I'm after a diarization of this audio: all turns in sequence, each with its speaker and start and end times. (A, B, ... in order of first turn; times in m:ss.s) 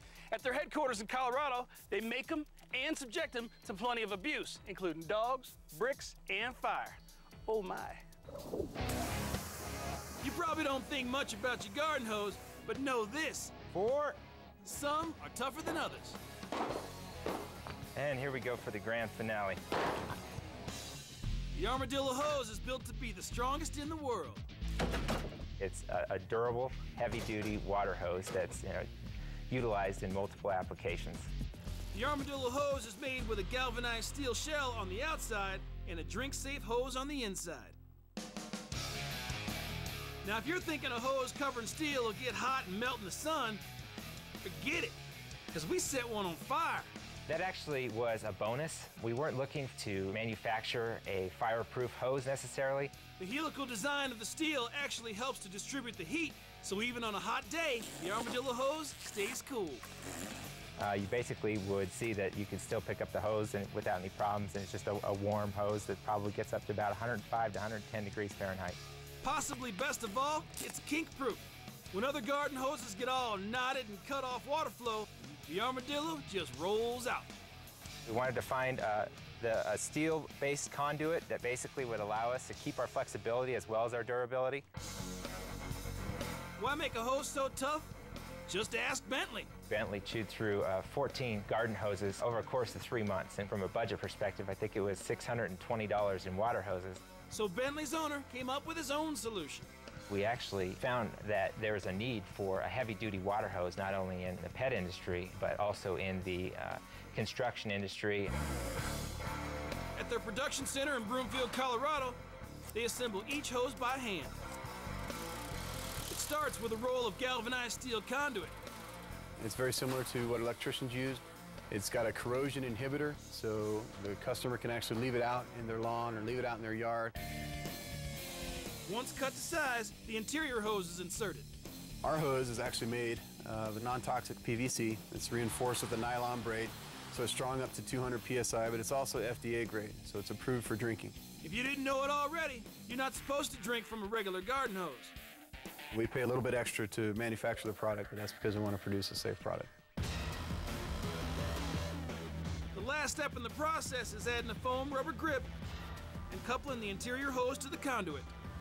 0:00.3-0:08.0 A
0:10.2-0:13.5 A
0:13.7-0:14.2 B
0:14.6-0:16.2 A
0:18.0-0:19.6 B
0:21.5-0:24.4 A
0:25.6-0:28.9 B
0:29.5-0:31.3 B
0:31.9-0:37.8 A
0:40.2-0:43.6 A
0:44.4-0:45.0 A
0:45.5-0:46.9 A
0:47.3-0:52.9 B
0:53.2-0:59.8 A
1:00.8-1:08.8 B
1:09.2-1:17.3 A
1:18.0-1:24.6 B
1:26.6-1:27.9 A
1:28.5-1:29.5 A
1:29.7-1:37.0 B
1:37.3-1:39.7 A
1:40.1-1:48.3 B
1:50.0-1:52.2 A
1:52.7-1:54.4 A
1:56.1-1:58.6 A
1:59.4-2:07.2 C
2:08.8-2:11.5 A
2:12.0-2:21.2 C
2:21.4-2:25.1 A
2:25.9-2:29.7 C
2:32.7-2:35.5 A
2:36.3-2:38.3 A